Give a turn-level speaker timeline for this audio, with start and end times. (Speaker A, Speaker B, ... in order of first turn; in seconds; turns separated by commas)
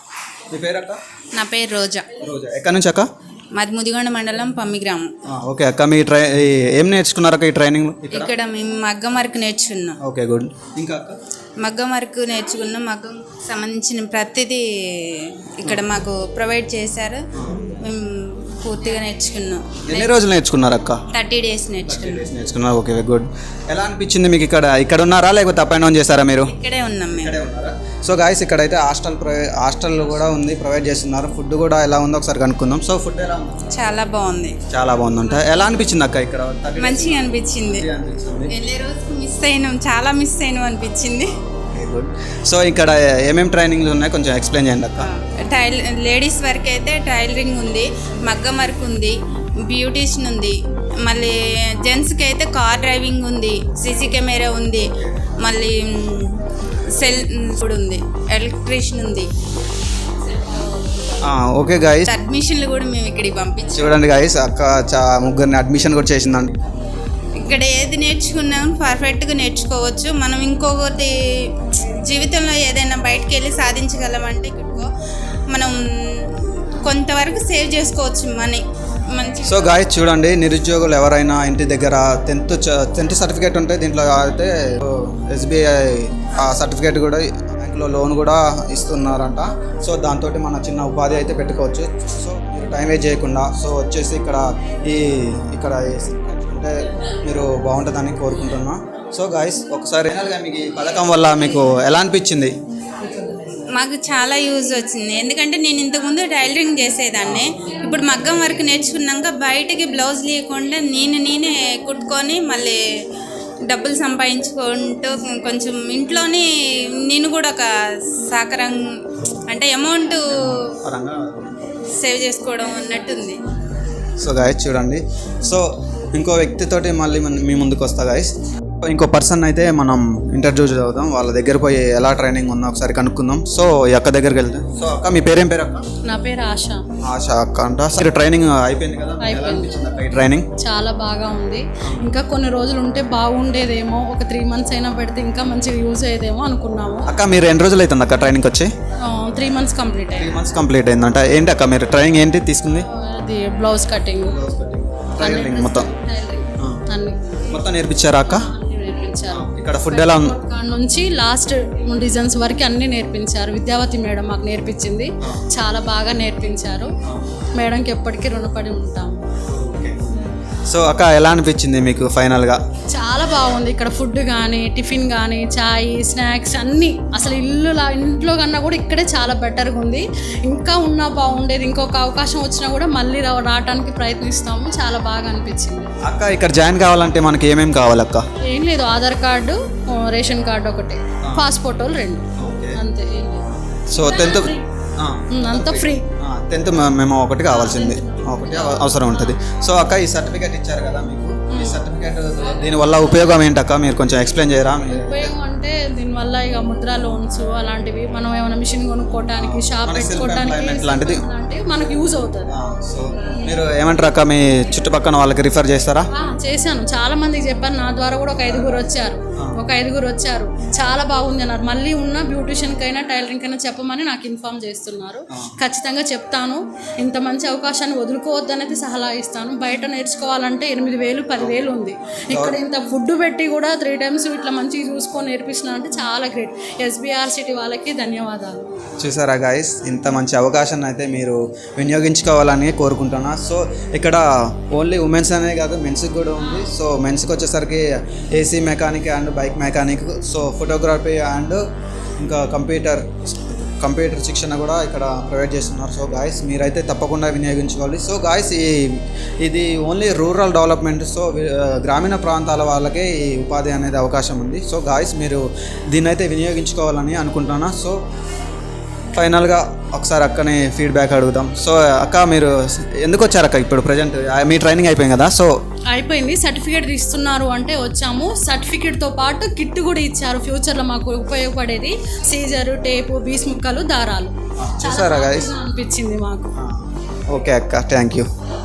Speaker A: 0.5-1.0, Speaker B: 1.4-2.1, Speaker A: 2.2-3.1, Speaker B: 3.5-5.1, Speaker A: 5.2-8.3, Speaker B: 8.1-10.0, Speaker A: 10.0-11.2, Speaker B: 11.6-17.2, Speaker A: 17.4-17.6, Speaker B: 17.8-20.1, Speaker A: 19.8-21.0, Speaker B: 21.1-22.3, Speaker A: 21.8-26.5, Speaker B: 26.4-27.4, Speaker A: 27.2-33.6, Speaker B: 33.7-34.6, Speaker A: 34.7-38.5, Speaker B: 36.8-37.9, Speaker B: 38.5-41.4, Speaker A: 41.5-45.1, Speaker B: 45.0-49.1, Speaker B: 49.7-54.9, Speaker B: 55.4-56.4, Speaker B: 56.9-59.3, Speaker A: 61.2-62.1, Speaker B: 62.1-64.1, Speaker A: 63.8-66.6, Speaker B: 67.4-71.1, Speaker B: 71.7-74.9, Speaker B: 75.5-79.8, Speaker A: 79.5-102.5, Speaker B: 103.8-112.8, Speaker A: 107.2-107.5, Speaker B: 113.7-116.5, Speaker B: 117.1-117.7, Speaker B: 118.3-118.9, Speaker B: 119.5-120.8, Speaker A: 120.3-121.6, Speaker B: 122.0-123.4, Speaker A: 124.2-135.8, Speaker C: 136.1-136.8, Speaker A: 137.0-140.5, Speaker C: 139.2-139.8, Speaker C: 140.6-147.1, Speaker A: 141.8-142.1, Speaker A: 147.1-148.7, Speaker C: 149.0-150.3, Speaker A: 150.1-152.8, Speaker C: 152.7-154.4, Speaker A: 154.3-155.9, Speaker C: 155.2-157.4, Speaker A: 157.5-158.5, Speaker C: 158.3-166.9, Speaker A: 159.3-160.3, Speaker C: 167.6-169.2, Speaker A: 169.5-172.6, Speaker C: 172.9-185.9, Speaker A: 186.1-188.2, Speaker C: 188.4-192.2, Speaker A: 192.4-192.8, Speaker C: 192.8-194.7, Speaker A: 193.9-205.3, Speaker C: 195.3-196.1, Speaker C: 197.5-199.4, Speaker C: 201.5-201.8, Speaker C: 204.9-212.5, Speaker A: 209.4-211.2, Speaker A: 212.5-216.1, Speaker C: 216.1-238.7, Speaker A: 218.5-218.8, Speaker A: 231.4-231.7, Speaker A: 232.3-232.6, Speaker A: 239.0-251.6, Speaker C: 246.4-246.7, Speaker A: 252.2-253.1, Speaker A: 253.8-268.0, Speaker A: 269.1-275.5, Speaker C: 275.9-286.5, Speaker A: 284.6-285.5, Speaker A: 286.6-288.3